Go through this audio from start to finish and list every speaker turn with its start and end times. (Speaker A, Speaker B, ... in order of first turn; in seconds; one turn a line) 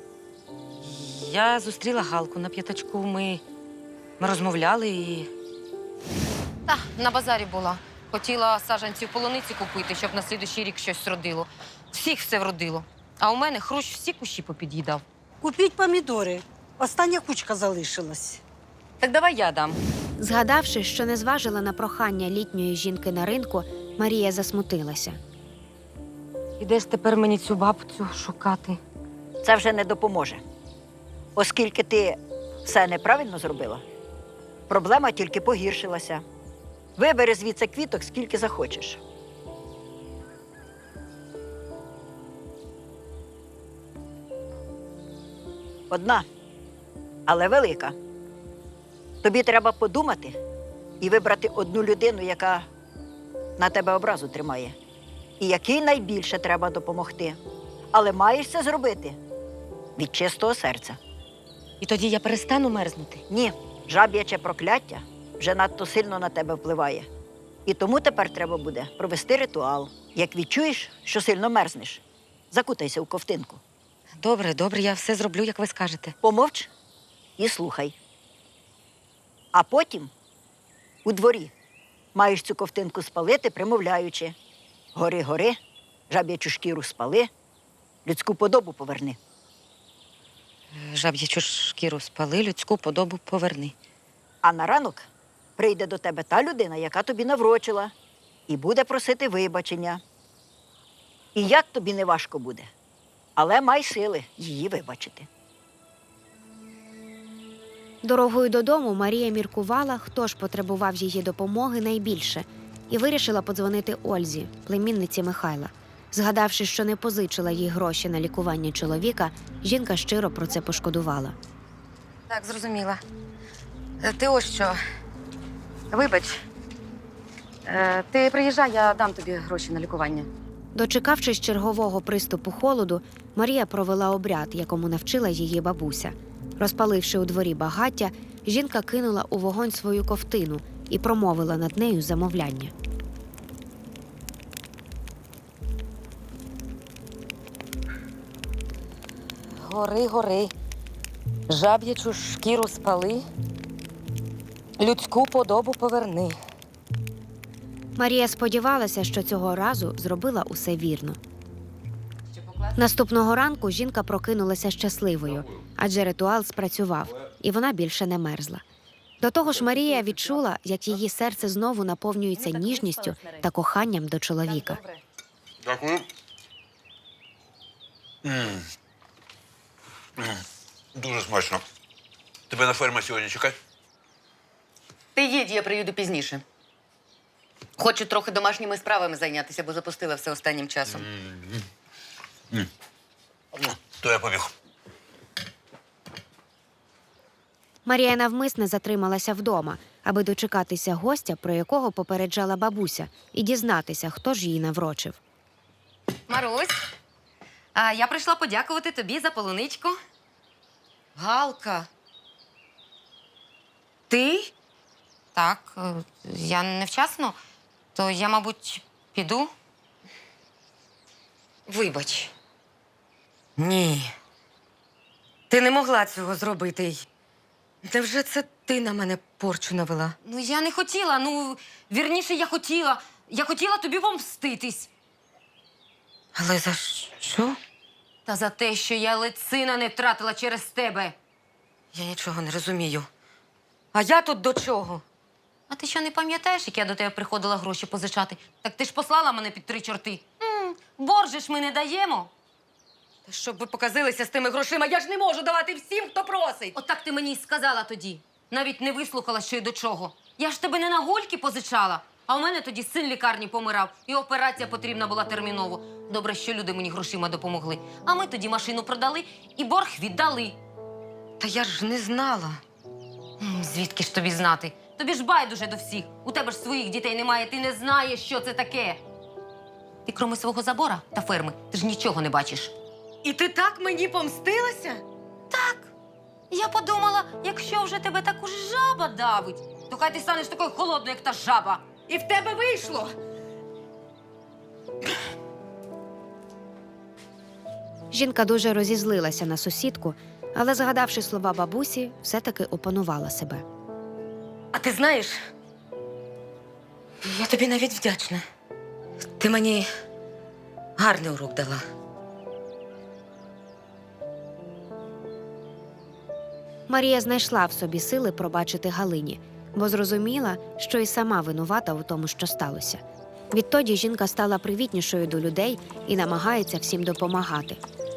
Speaker A: 0.8-3.4
Speaker A: 4.2-5.3
Speaker B: 6.7-15.0
Speaker C: 15.4-18.4
Speaker A: 19.0-19.8
Speaker D: 20.2-25.2
Speaker A: 26.6-28.8
Speaker E: 29.4-30.4
Speaker E: 31.4-33.8
Speaker E: 34.7-36.2
Speaker E: 37.0-39.0
Speaker E: 45.9-46.2
Speaker E: 47.3-47.9
Speaker E: 49.2-50.4
Speaker E: 51.0-52.6
Speaker E: 53.6-54.7
Speaker E: 55.4-57.4
Speaker E: 57.9-59.2
Speaker E: 60.0-61.0
Speaker A: 61.8-63.2
Speaker E: 63.3-67.1
Speaker E: 67.7-73.6
Speaker A: 74.2-76.1
Speaker E: 76.2-76.7
Speaker E: 77.4-77.9
Speaker E: 79.5-80.1
Speaker E: 81.0-81.5
Speaker E: 82.1-84.3
Speaker E: 84.9-85.6
Speaker E: 86.1-87.3
Speaker E: 88.0-89.2
Speaker A: 90.7-93.7
Speaker E: 94.4-95.0
Speaker E: 95.6-97.9
Speaker E: 98.5-100.0
Speaker E: 101.3-102.7
Speaker E: 103.3-105.3
Speaker D: 108.0-121.4
Speaker A: 122.3-123.0
Speaker A: 124.0-124.8
Speaker A: 125.9-126.4
Speaker A: 127.7-130.3
Speaker D: 130.7-142.7
Speaker A: 149.6-150.5
Speaker A: 151.5-153.2
Speaker A: 154.8-156.4
Speaker D: 157.9-161.2
Speaker A: 162.3-162.8
Speaker D: 162.8-168.6
Speaker D: 169.2-174.8
Speaker F: 175.6-176.1
Speaker F: 178.2-178.7
Speaker F: 180.2-181.6
Speaker F: 182.5-183.6
Speaker A: 185.2-186.4
Speaker A: 187.8-191.0
Speaker F: 190.9-191.6
Speaker F: 193.5-194.5
Speaker D: 197.8-205.2
Speaker B: 206.3-206.7
Speaker B: 207.7-209.9
Speaker B: 211.2-211.9
Speaker B: 214.1-214.5
Speaker B: 215.3-217.4
Speaker B: 217.9-219.5
Speaker B: 221.7-222.3
Speaker B: 223.6-223.9
Speaker A: 225.5-227.0
Speaker A: 227.8-230.2
Speaker B: 230.2-234.9
Speaker A: 236.3-237.6
Speaker B: 238.2-241.2
Speaker A: 241.9-243.1
Speaker A: 243.9-245.0
Speaker B: 245.7-252.3
Speaker A: 253.2-256.7
Speaker B: 256.7-270.6
Speaker A: 271.4-272.6
Speaker B: 273.4-279.0
Speaker B: 280.1-282.7
Speaker A: 283.2-285.0
Speaker B: 285.5-285.9
Speaker B: 286.5-292.1
Speaker A: 292.1-293.1
Speaker D: 298.1-303.6
Speaker A: 304.7-305.3
Speaker A: 307.2-308.4
Speaker A: 309.4-309.9
Speaker A: 311.0-311.8
Speaker D: 316.9-327.8